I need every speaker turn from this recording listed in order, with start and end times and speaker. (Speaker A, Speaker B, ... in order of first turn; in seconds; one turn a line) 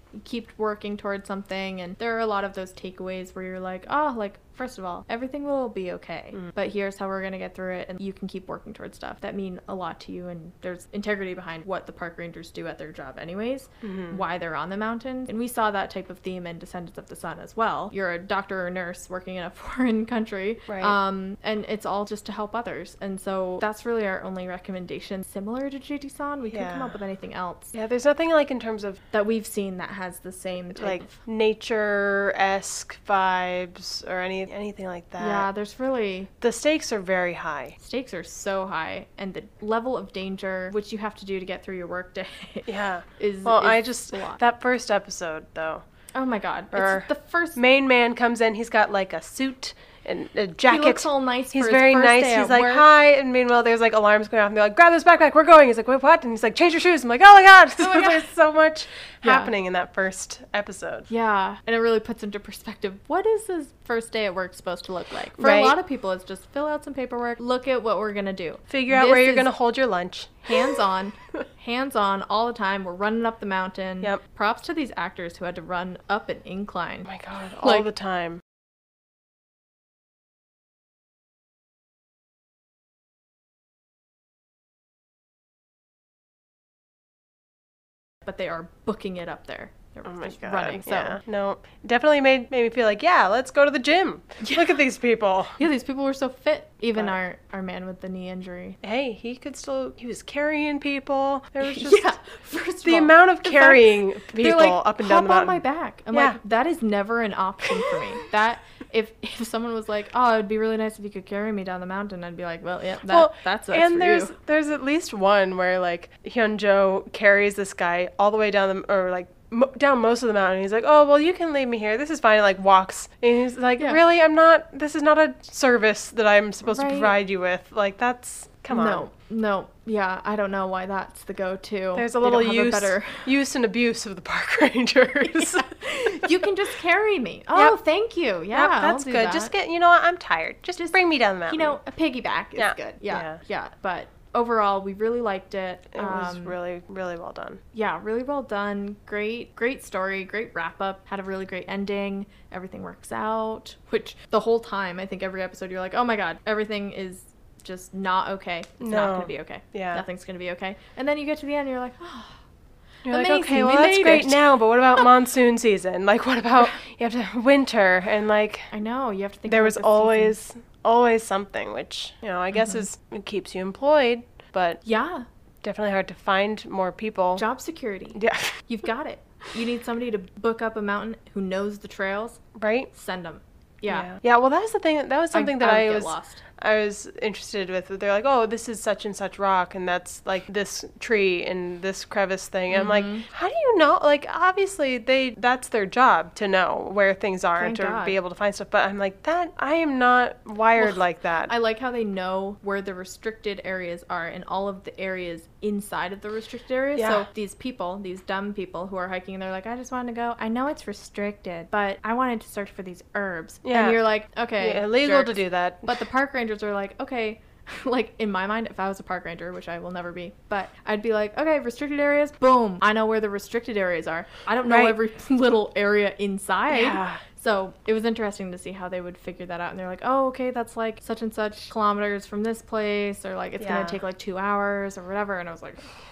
Speaker A: 0.1-27.8
Speaker B: 13.8-14.2
Speaker B: 20.7-21.0
Speaker B: 26.5-27.0
Speaker B: 27.7-29.0
Speaker A: 29.1-31.2
Speaker B: 30.7-35.5
Speaker A: 35.2-36.3
Speaker B: 36.4-37.8
Speaker A: 37.8-44.4
Speaker B: 42.7-45.8
Speaker A: 46.1-47.6
Speaker B: 46.7-61.1
Speaker A: 50.6-52.9
Speaker A: 57.8-58.2
Speaker A: 59.2-59.5
Speaker A: 61.1-69.5
Speaker B: 65.4-65.8
Speaker B: 68.7-70.8
Speaker A: 70.4-77.1
Speaker B: 77.0-78.4
Speaker A: 88.2-91.2
Speaker B: 90.0-95.6
Speaker A: 94.4-94.8
Speaker A: 95.6-98.8
Speaker B: 98.8-102.1
Speaker A: 101.6-114.3
Speaker B: 102.8-106.4
Speaker B: 107.6-108.2
Speaker B: 113.1-129.1
Speaker A: 126.7-127.1
Speaker A: 128.7-133.3
Speaker B: 131.9-136.4
Speaker A: 135.2-139.5
Speaker B: 138.5-141.8
Speaker A: 141.5-146.6
Speaker B: 142.6-143.4
Speaker B: 145.9-147.6
Speaker A: 147.7-162.4
Speaker B: 158.8-160.0
Speaker A: 163.0-165.1
Speaker B: 163.0-168.7
Speaker A: 168.7-170.3
Speaker B: 169.5-174.8
Speaker A: 172.5-172.8
Speaker A: 174.8-175.2
Speaker B: 175.6-177.4
Speaker A: 177.3-184.1
Speaker B: 178.1-178.6
Speaker B: 182.6-182.9
Speaker B: 183.9-201.5
Speaker A: 185.3-186.4
Speaker A: 192.7-193.3
Speaker A: 197.6-198.2
Speaker A: 201.5-235.9
Speaker B: 206.9-207.2
Speaker B: 213.6-214.0
Speaker B: 214.6-216.0
Speaker B: 224.6-224.9
Speaker B: 226.7-227.2
Speaker B: 233.6-234.0